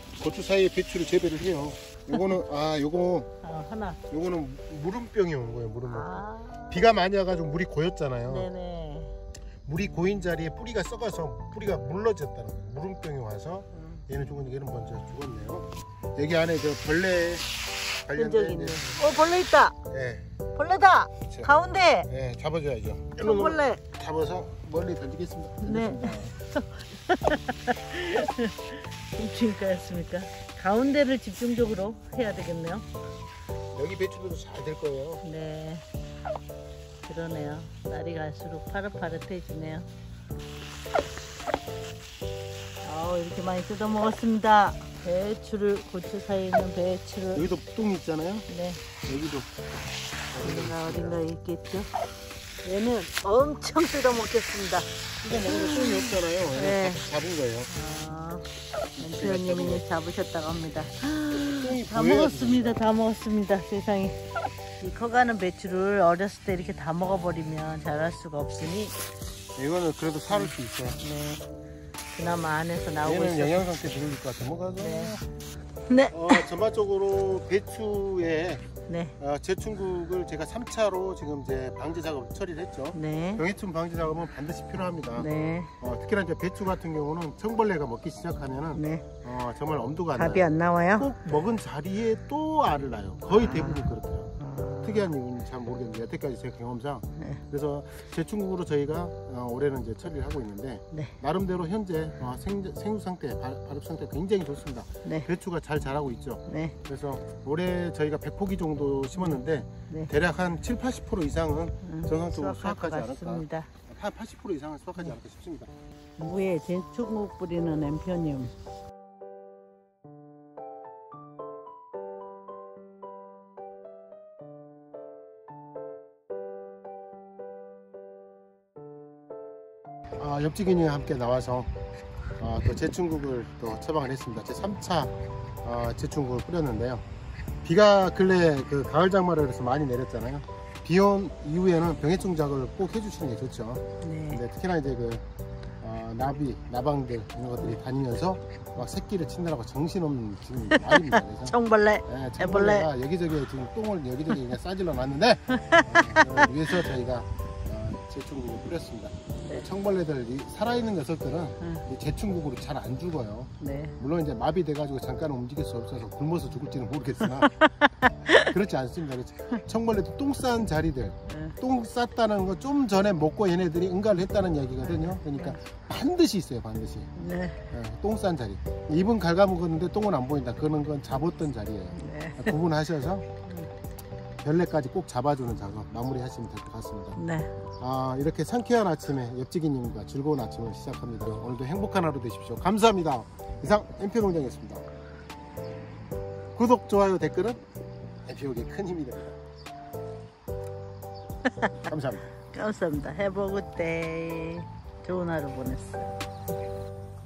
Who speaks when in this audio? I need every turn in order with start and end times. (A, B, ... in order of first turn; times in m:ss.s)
0:00.2-0:03.3 A
0:03.4-0:04.0 B
0:04.1-0:06.1 A
0:05.9-0:06.9 B
0:06.7-0:08.5 A
0:08.3-0:09.2 B
0:09.7-0:17.5 A
0:18.1-0:19.0 A
0:18.2-0:19.8 B
0:19.9-0:20.3 A
0:20.6-0:22.1 B
0:22.1-0:26.3 A
0:23.2-0:23.8 B
0:25.6-0:32.9 B
0:33.7-0:35.2 A
0:35.2-0:35.8 B
0:37.1-0:39.9 B
0:42.8-0:47.5 B
0:47.3-0:48.5 A
0:48.5-0:48.8 B
0:49.0-0:49.5 A
0:50.3-0:51.2 A
0:50.4-0:51.9 B
0:52.6-0:54.9 B
0:55.2-0:57.7 A
0:55.4-0:57.1 B
0:57.7-0:58.5 B
0:59.0-0:59.8 A
0:59.0-1:04.2 B
1:01.3-1:02.8 A
1:04.8-1:09.0 B
1:09.6-1:11.0 A
1:10.3-1:11.5 B
1:12.1-1:13.7 B
1:13.0-1:15.2 A
1:14.8-1:15.2 B
1:15.9-1:16.5 B
1:16.1-1:18.7 A
1:18.9-1:19.2 B
1:19.2-1:25.3 A
1:22.9-1:23.4 B
1:25.2-1:25.7 B
1:25.8-1:55.7 A
1:28.8-1:29.1 B
1:30.2-1:31.1 B
1:33.3-1:35.1 B
1:37.2-1:37.4 B
1:45.0-1:45.3 B
1:46.5-1:46.8 B
1:49.2-1:50.1 B
1:51.8-1:53.7 B
1:56.2-1:58.5 B
2:10.2-2:11.7 A
2:12.4-2:15.1 A
2:15.6-2:17.0 A
2:17.6-2:25.2 A
2:24.0-2:24.4 B
2:25.8-2:31.6 A
2:30.7-2:32.9 B
2:32.1-2:47.5 A
2:35.5-2:36.5 B
2:43.6-2:44.0 B
2:47.2-2:48.5 B
2:48.4-2:57.1 A
2:51.3-2:51.6 B
2:54.8-2:55.6 B
2:57.2-2:57.6 B
2:57.7-3:03.3 A
3:01.9-3:02.6 B
3:04.4-3:07.2 A
3:07.2-3:07.5 B
3:07.8-3:14.8 A
3:16.6-3:17.6 A
3:18.3-3:19.4 A
3:21.9-3:22.3 A
3:22.5-3:26.1 B